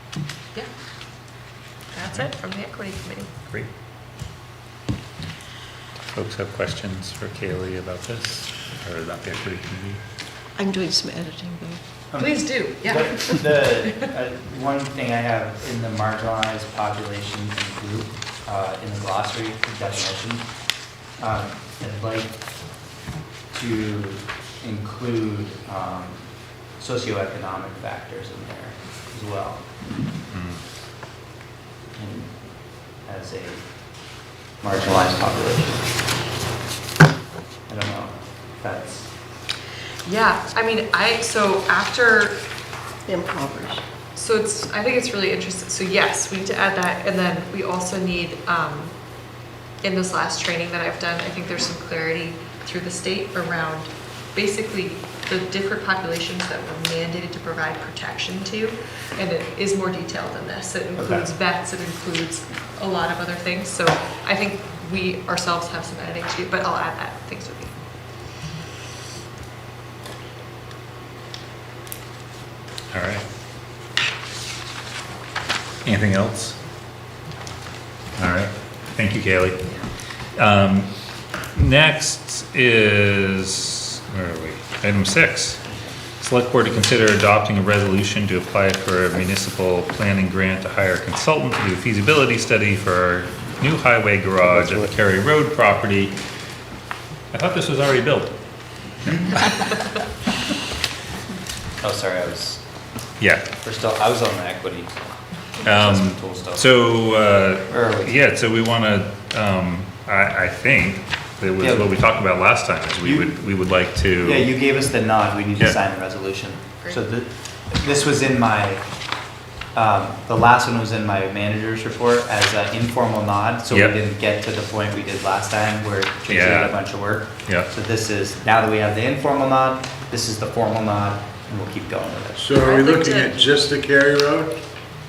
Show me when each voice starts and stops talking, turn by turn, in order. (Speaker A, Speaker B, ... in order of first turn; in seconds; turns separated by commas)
Speaker A: 1.9-3.3, Speaker B: 6.1-10.0, Speaker C: 10.6-11.8, Speaker D: 12.1-20.5, Speaker A: 12.2-14.1, Speaker D: 21.2-22.4, Speaker D: 23.5-26.2, Speaker D: 26.8-29.6, Speaker B: 30.3-30.6, Speaker D: 31.9-32.3, Speaker D: 33.0-33.6, Speaker D: 34.6-35.8, Speaker D: 37.7-39.1, Speaker A: 40.0-42.4, Speaker C: 43.0-43.8, Speaker A: 44.1-48.9, Speaker A: 49.8-67.7, Speaker D: 61.0-61.3, Speaker B: 72.9-73.2, Speaker B: 75.8-76.6, Speaker B: 78.2-79.8, Speaker B: 80.3-80.9, Speaker B: 81.5-85.6, Speaker B: 86.2-96.1, Speaker B: 97.3-98.3, Speaker D: 101.8-102.6, Speaker B: 103.2-103.5, Speaker D: 103.6-104.9, Speaker B: 105.6-114.5, Speaker D: 105.7-106.7, Speaker D: 107.7-108.2, Speaker D: 111.6-111.9, Speaker D: 113.0-113.3, Speaker D: 114.2-118.8, Speaker D: 119.7-132.4, Speaker B: 123.7-124.0, Speaker B: 126.3-126.8, Speaker E: 132.4-134.5, Speaker A: 132.5-133.4